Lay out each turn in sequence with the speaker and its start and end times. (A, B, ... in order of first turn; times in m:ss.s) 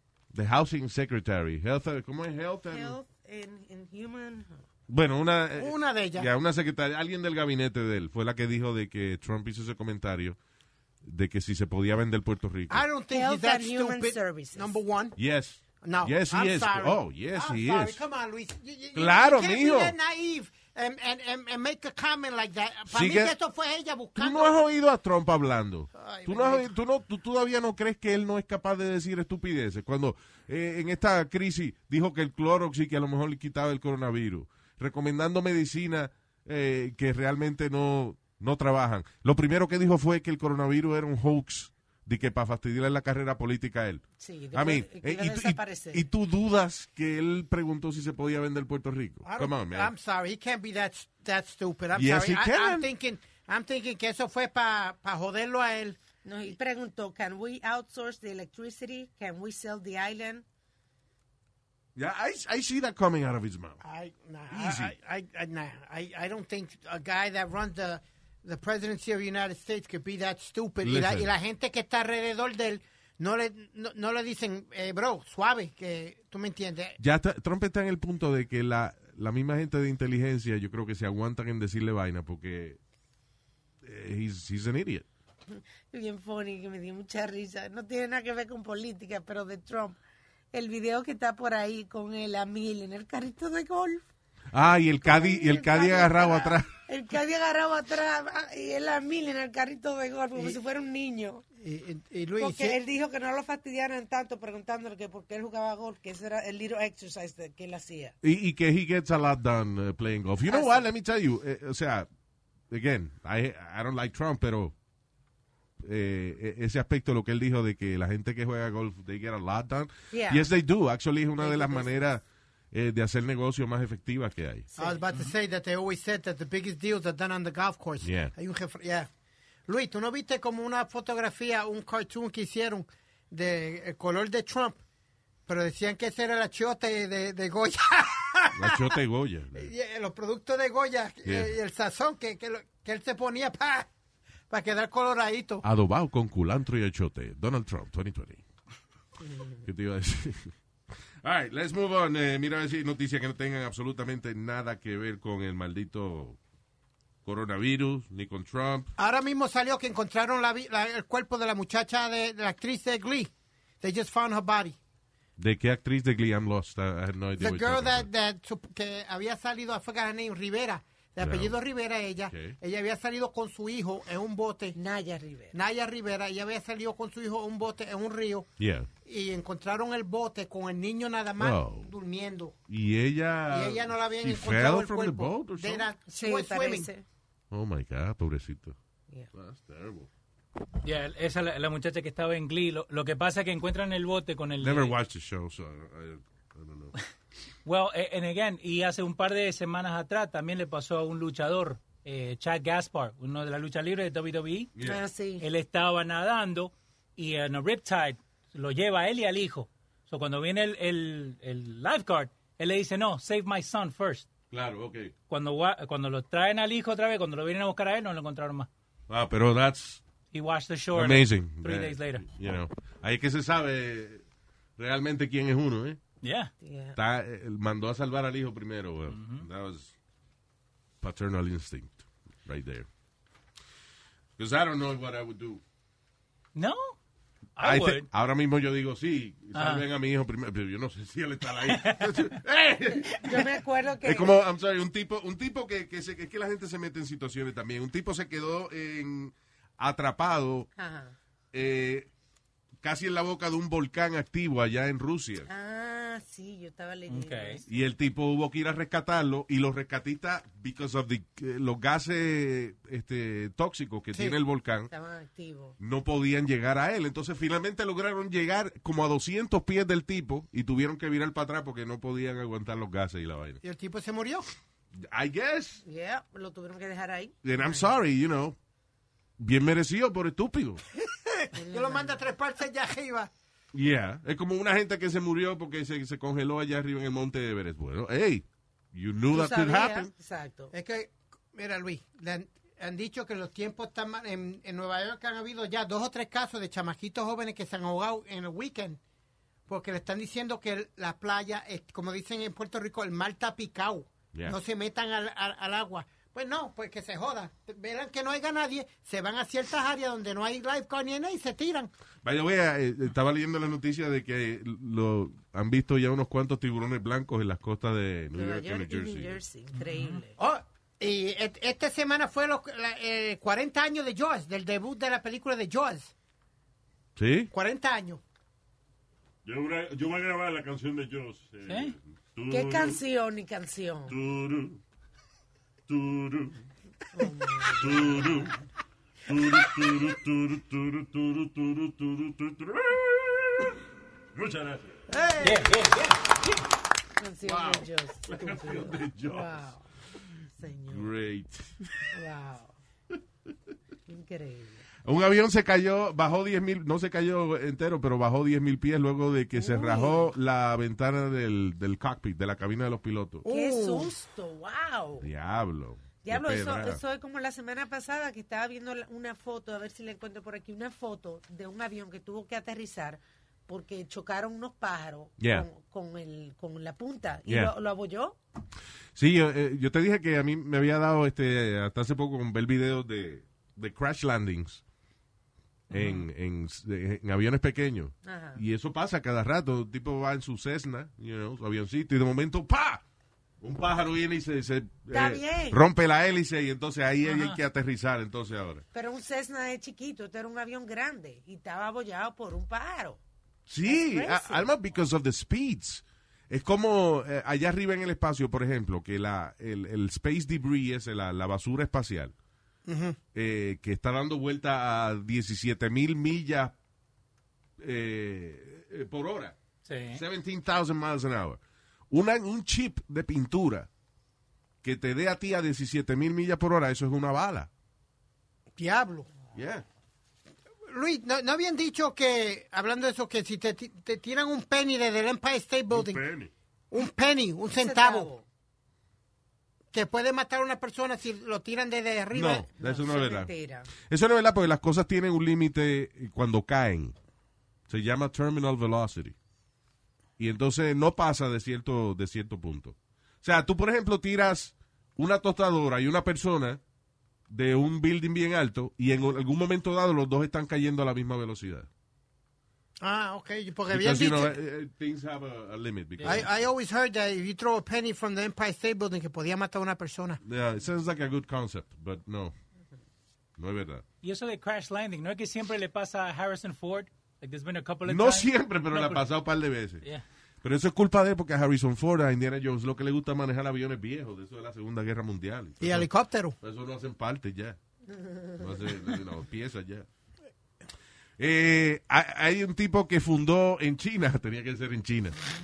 0:00.3-0:03.0 A
0:02.7-0:04.6 B
0:04.9-0:10.4 A
0:05.6-0:06.3 C
0:11.0-0:12.9 A
0:12.7-0:15.2 C
0:13.1-0:14.8 B
0:15.2-0:18.0 A
0:15.8-0:24.5 C
0:18.9-0:20.0 A
0:22.9-0:23.3 A
0:24.2-0:49.9 A
0:25.9-0:26.7 C
0:44.2-0:46.0 B
0:49.2-0:56.0 C
0:51.9-0:52.9 A
0:56.2-1:00.4 B
1:01.9-1:03.8 A
1:03.8-1:17.0 C
1:04.5-1:04.9 A
1:10.8-1:11.3 A
1:17.0-1:22.8 A
1:23.8-1:25.0 A
1:25.5-1:30.0 B
1:30.5-1:34.0 B
1:34.5-1:36.7 A
1:35.0-1:41.4 B
1:41.6-1:42.8 C
1:42.4-1:48.1 B
1:48.2-1:52.1 A
1:50.5-1:50.8 B
1:52.7-1:54.7 A
1:55.8-2:04.7 A
2:00.1-2:00.5 B
2:01.4-2:02.0 B
2:04.7-2:05.0 B
2:04.8-2:09.1 C
2:08.0-2:08.3 A
2:09.7-2:14.8 C
2:15.5-2:18.9 C
2:18.5-2:19.7 A
2:19.5-2:23.9 C
2:21.2-2:21.5 A
2:24.5-2:25.6 C
2:25.6-2:28.4 A
2:29.6-2:30.5 A
2:31.2-2:36.4 A
2:37.2-2:38.9 A
2:39.0-2:44.8 C
2:45.4-2:48.1 A
2:47.4-2:54.8 C
2:51.2-2:51.6 A
2:52.3-2:52.6 A
2:54.7-2:55.5 B
2:55.5-2:58.5 C
2:58.6-2:58.9 A
2:59.0-3:02.5 C
3:01.4-3:01.9 A
3:02.7-3:05.9 A
3:03.5-3:06.9 C
3:06.0-3:07.0 B
3:07.5-3:08.8 A
3:09.3-3:10.1 A
3:10.8-3:14.9 D
3:14.6-3:16.9 A
3:17.6-3:24.7 D
3:24.8-3:25.0 A
3:24.8-3:25.4 B
3:25.4-3:34.3 D
3:34.5-3:35.1 A
3:35.3-3:38.7 D
3:39.1-3:40.0 A
3:40.3-3:42.2 D
3:40.9-3:44.2 A
3:44.8-3:46.0 A
3:46.2-3:46.5 D
3:46.6-3:47.0 B
3:46.9-3:49.9 A
3:49.1-3:49.4 D
3:51.0-3:52.9 A
3:54.4-3:55.6 A
3:56.5-3:57.0 D
3:57.6-3:58.1 D
3:57.6-4:03.5 A
3:59.5-3:59.8 D
4:01.6-4:02.4 D
4:03.1-4:04.3 B
4:04.0-4:10.7 A
4:10.8-4:11.1 B
4:11.5-4:12.1 A
4:12.8-4:15.5 A
4:15.5-4:17.7 B
4:17.1-4:17.6 D
4:17.7-4:24.9 A
4:24.9-4:25.7 B
4:25.8-4:33.6 A
4:33.6-4:34.4 C
4:34.9-4:35.8 A
4:35.8-4:37.9 B
4:37.4-4:38.6 A
4:39.4-4:40.8 A
4:41.1-4:43.3 C
4:41.6-4:42.2 B
4:43.7-4:50.1 A
4:49.3-4:50.7 B
4:50.7-4:59.0 C
4:59.7-5:11.9 C
5:04.3-5:04.6 A
5:12.2-5:19.4 A
5:18.3-5:20.4 B
5:19.7-5:20.2 D
5:20.4-5:26.1 C
5:27.2-5:27.5 A
5:27.5-5:28.2 C
5:29.4-5:33.0 E
5:31.7-5:32.0 D
5:32.5-5:34.2 B
5:34.1-5:34.8 E
5:35.9-5:36.6 E
5:37.1-5:38.5 B
5:37.8-5:38.5 E
5:39.3-5:43.6 E
5:44.3-5:45.0 E
5:45.1-5:45.4 B
5:45.1-5:45.6 C
5:45.4-5:46.5 D
5:47.2-5:49.8 B
5:47.4-5:49.6 A
5:48.4-5:49.2 E
5:50.6-5:51.2 B
5:50.9-5:52.1 A
5:52.1-5:52.7 B
5:54.1-5:54.8 B
5:55.0-6:03.4 A
5:59.5-6:00.3 B
6:03.4-6:04.1 C
6:03.5-6:05.3 B
6:05.2-6:07.0 A
6:06.2-6:18.4 B
6:15.4-6:15.7 A
6:17.5-6:17.7 A
6:19.1-6:24.8 A
6:25.9-6:26.3 D
6:25.9-6:33.0 A
6:28.2-6:28.6 B
6:33.6-6:38.8 A
6:35.1-6:35.8 B
6:37.2-6:37.6 D
6:38.9-6:43.2 B
6:43.7-6:52.3 A
6:43.8-6:44.7 B
6:52.8-6:53.2 C
6:53.3-6:56.8 A
6:57.8-6:59.6 A
6:59.8-7:00.2 D
7:00.1-7:03.9 A
7:04.8-7:07.7 A
7:08.8-7:09.3 C
7:09.5-7:09.8 A
7:10.9-7:16.3 C
7:15.9-7:16.5 E
7:16.9-7:18.3 C
7:17.7-7:18.4 B
7:19.9-7:22.7 C
7:22.3-7:27.1 A
7:22.7-7:23.9 B
7:27.9-7:29.4 A
7:30.4-7:36.8 A
7:37.5-7:41.9 A
7:43.0-7:44.6 C
7:43.9-7:46.5 A
7:46.2-7:46.4 D
7:46.2-7:50.4 C
7:50.4-7:52.5 A
7:53.6-7:54.0 A
7:54.2-7:59.3 D
7:58.0-8:00.0 A
8:00.6-8:06.1 A
8:05.8-8:06.5 C
8:06.6-8:07.8 A
8:08.6-8:10.1 A
8:11.4-8:15.5 A